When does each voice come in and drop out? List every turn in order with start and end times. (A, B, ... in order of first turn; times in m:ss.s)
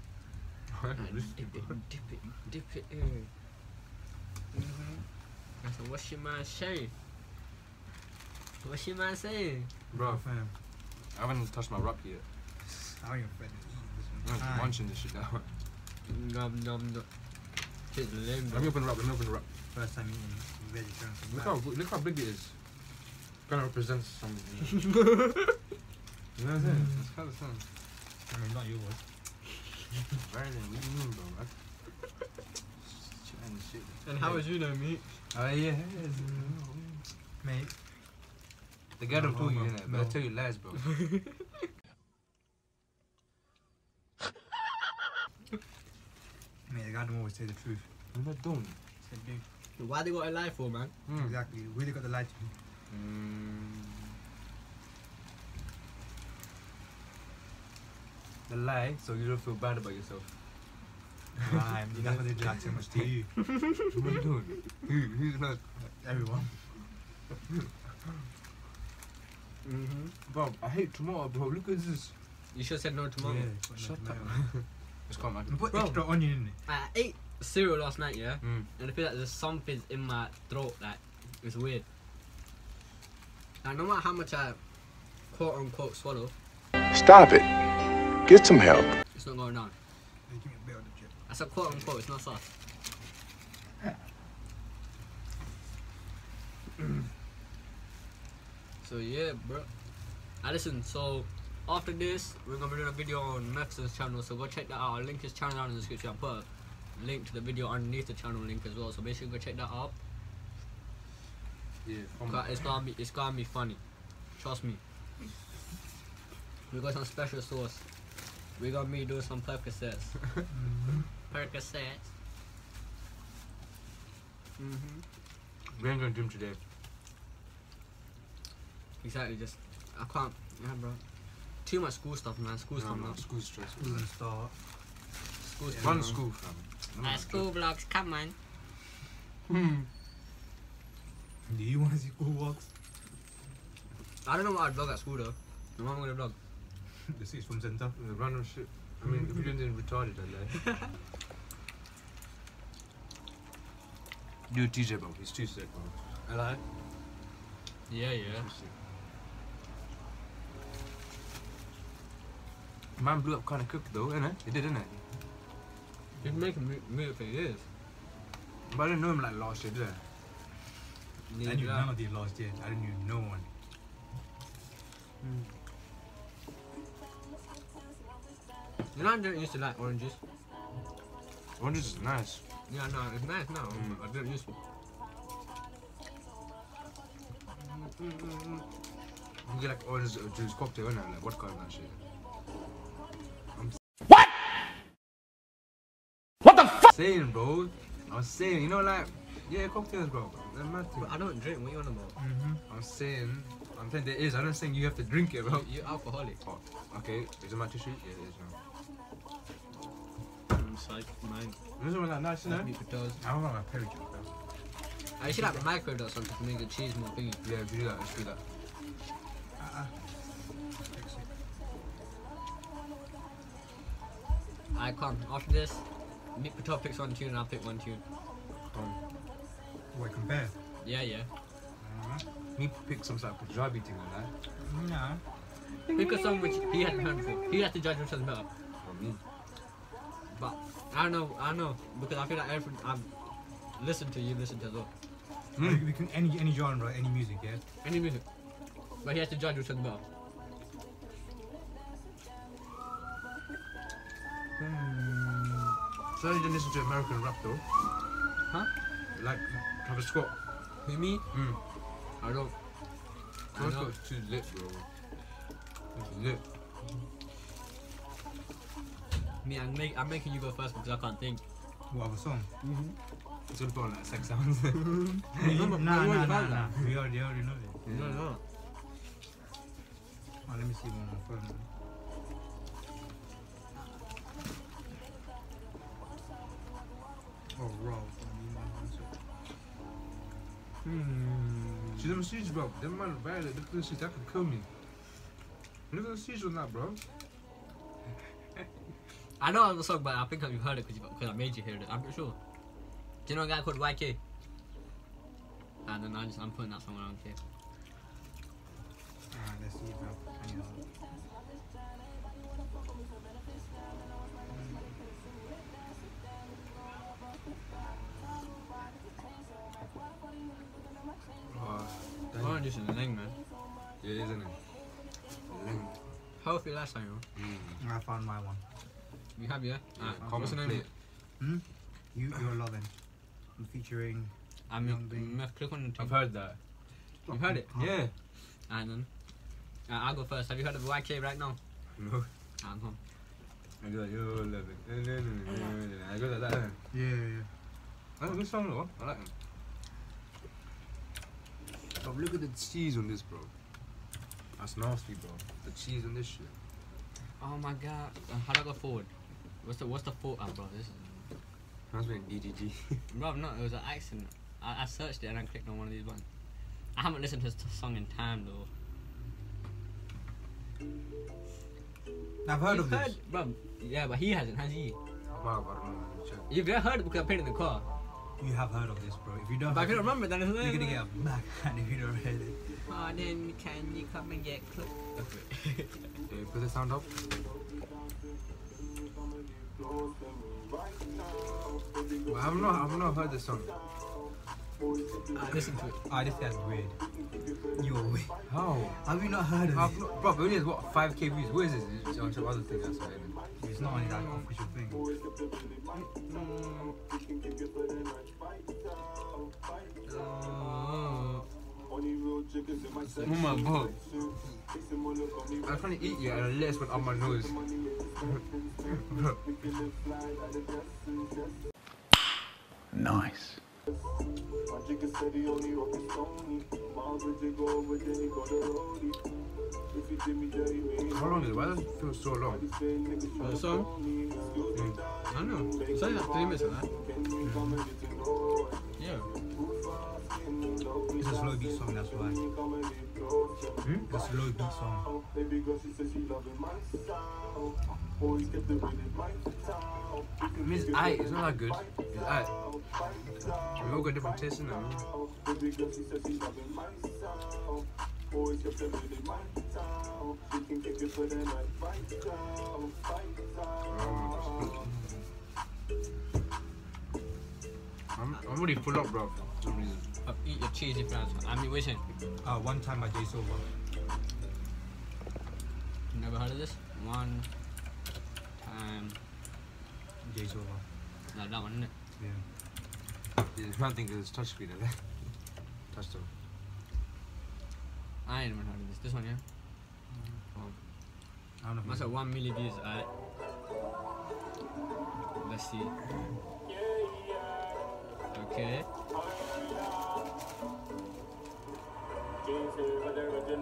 0:00.7-0:01.8 A
0:01.0-0:03.3 B
0:04.5-0:04.9 B
0:05.6-0:06.9 B
0:08.6-0:09.7 B
0:09.9-0:10.5 C
0:09.9-0:10.2 A
0:11.1-0:12.2 A
0:12.6-0:14.8 C
0:14.2-0:15.6 A
0:16.0-0:17.1 B
0:17.8-0:18.7 B
0:18.5-0:19.5 A
0:19.7-0:21.5 C
0:21.3-0:22.6 A
0:23.4-0:25.1 A
0:25.0-0:25.4 B
0:26.4-0:27.6 A
0:26.6-0:27.1 C
0:28.3-0:29.0 C
0:30.2-0:31.5 A
0:32.8-0:34.4 A
0:34.0-0:35.2 B
0:35.3-0:37.0 A
0:36.1-0:36.6 C
0:37.4-0:37.7 C
0:39.0-0:40.9 A
0:39.1-0:40.2 C
0:46.7-0:47.9 C
0:48.1-0:48.8 A
0:49.0-0:49.5 C
0:49.8-0:50.9 B
0:51.0-0:51.4 A
0:51.2-0:52.5 C
0:52.9-0:54.1 A
0:58.5-1:00.4 A
1:01.4-1:03.4 C
1:01.5-1:03.1 A
1:03.8-1:05.6 A
1:05.8-1:06.8 C
1:09.6-1:10.1 B
1:10.2-1:12.2 A
1:12.5-1:13.5 B
1:13.2-1:14.5 C
1:13.7-1:15.6 A
1:15.5-1:16.6 C
1:15.7-1:21.8 B
1:18.4-1:18.7 A
1:23.6-1:24.6 B
1:25.1-1:26.3 B
1:26.9-1:27.5 D
1:28.2-1:28.9 D
1:29.1-1:29.7 B
1:30.2-1:31.9 C
1:31.3-1:32.5 B
1:38.8-1:39.7 B
1:40.4-1:50.0 B
1:51.8-1:52.8 A
1:52.3-1:54.8 B
1:56.7-1:57.9 B
1:58.5-2:00.2 B
2:00.5-2:01.1 C
2:01.3-2:02.1 B
2:04.6-2:05.0 B
2:05.7-2:06.6 A
2:09.0-2:11.0 B
2:11.6-2:13.2 B
2:12.8-2:14.0 A
2:13.8-2:14.6 C
2:15.4-2:16.1 B
2:15.7-2:16.2 C
2:15.8-2:17.4 A
2:17.0-2:18.3 B
2:19.5-2:19.8 A
2:21.4-2:22.7 C
2:24.2-2:26.4 B
2:27.1-2:27.9 C
2:28.0-2:30.7 A
2:29.0-2:29.5 C
2:34.5-2:36.6 A
2:37.9-2:38.5 B
2:38.2-2:38.7 A
2:43.0-2:45.0 A
2:46.2-2:47.7 B
2:48.7-2:50.0 A
2:51.3-2:51.9 A
2:51.4-2:53.5 C
2:55.2-2:55.5 B
2:58.9-3:00.2 B
3:01.6-3:02.4 A
3:02.7-3:04.6 B
3:03.7-3:04.0 A
3:07.6-3:08.6 B
3:09.4-3:12.0 A
3:16.8-3:21.2 A
3:21.0-3:22.2 B
3:22.2-3:22.6 C
3:22.7-3:25.7 A
3:25.4-3:26.4 B
3:26.4-3:28.6 A
3:30.5-3:31.6 B
3:31.8-3:32.7 A
3:32.4-3:33.2 B
3:33.2-3:34.3 C
3:35.2-3:37.4 B
3:35.2-3:35.6 C
3:37.4-3:38.4 A
3:39.6-3:40.1 C
3:40.7-3:41.3 C
3:44.7-3:48.0 B
3:48.7-3:49.0 A
3:49.9-3:50.6 C
3:50.8-3:51.3 B
3:51.8-3:52.3 C
3:52.6-3:54.3 A
3:54.6-3:55.2 C
3:55.8-3:56.7 A
3:55.9-3:58.5 B
3:57.2-3:57.5 A
3:58.8-3:59.2 A
4:00.3-4:03.1 B
4:03.7-4:04.9 B
4:05.6-4:05.8 A
4:05.6-4:07.6 C
4:07.8-4:08.2 B
4:09.0-4:10.0 B
4:14.6-4:17.6 A
4:19.1-4:20.3 A
4:20.8-4:21.2 B
4:21.3-4:21.6 A
4:22.2-4:22.5 B
4:23.5-4:23.9 B
4:23.5-4:24.9 A
4:25.9-4:26.4 A
4:29.4-4:31.4 B
4:31.9-4:32.5 C
4:32.6-4:33.0 B
4:33.5-4:35.5 A
4:35.3-4:37.8 C
4:35.4-4:36.7 B
4:37.8-4:38.2 A
4:37.9-4:38.4 B
4:40.4-4:41.7 C
4:47.5-4:49.2 C
4:50.8-4:52.0 B
4:52.0-4:54.7 A
4:55.9-4:57.0 A
4:59.4-5:02.4 B
5:03.2-5:04.2 B
5:05.8-5:07.4 B
5:09.3-5:10.9 C
5:14.5-5:14.9 C
5:21.4-5:22.6 A
5:22.3-5:23.4 B
5:24.0-5:24.6 A
5:25.5-5:26.0 A
5:26.4-5:27.2 B
5:27.4-5:27.8 A
5:27.8-5:28.6 C
5:29.3-5:30.9 B
5:30.0-5:30.9 A
5:31.4-5:32.9 C
5:33.5-5:35.4 C
5:34.7-5:36.2 B
5:36.0-5:36.6 A
5:37.2-5:37.7 B
5:37.3-5:37.9 C
5:37.7-5:38.1 A
5:38.4-5:39.1 B
5:39.8-5:41.6 B
5:41.9-5:42.3 A
5:42.6-5:43.0 B
5:43.8-5:46.8 A
5:45.5-5:45.7 B
5:46.9-5:47.5 C
5:48.2-5:49.3 A
5:52.0-5:53.5 A
5:54.6-5:56.6 A
5:57.4-6:01.3 B
6:01.9-6:03.0 A
6:03.1-6:06.3 B
6:06.9-6:08.7 B
6:12.4-6:13.2 C
6:12.6-6:15.0 B
6:15.4-6:16.5 A
6:16.5-6:17.9 B
6:18.4-6:22.8 C
6:19.6-6:21.0 B
6:22.8-6:26.1 B
6:26.3-6:27.1 A
6:32.2-6:33.7 A
6:35.3-6:36.0 B
6:36.0-6:37.0 C
6:37.7-6:38.4 C
6:38.5-6:39.0 A
6:39.0-6:40.0 C
6:39.7-6:43.4 A
6:43.6-6:45.1 C
6:43.8-6:44.4 B
6:45.9-6:47.0 B
6:50.0-6:51.4 B
6:53.0-6:53.5 B
6:53.1-6:54.0 A
6:55.5-6:59.4 A
7:02.9-7:03.6 D
7:11.1-7:12.7 A
7:13.4-7:13.9 B
7:14.7-7:15.0 A
7:15.3-7:16.9 B
7:17.4-7:17.8 C
7:19.0-7:19.3 B
7:21.2-7:22.4 C
7:23.8-7:24.1 A
7:24.1-7:25.1 C
7:30.6-7:32.6 A
7:33.8-7:35.1 A
7:43.9-7:45.0 A
7:48.1-7:50.1 A
7:50.2-7:52.0 B
7:52.4-7:53.7 C
7:56.1-7:57.5 B
7:58.6-7:59.2 B
8:00.2-8:00.8 C
8:01.3-8:01.9 B
8:02.2-8:02.4 C
8:03.5-8:05.3 A
8:05.9-8:06.3 A
8:08.2-8:09.4 B
8:10.1-8:10.4 C
8:11.6-8:12.1 C
8:11.8-8:13.1 B
8:15.4-8:16.0 B
8:18.3-8:18.9 B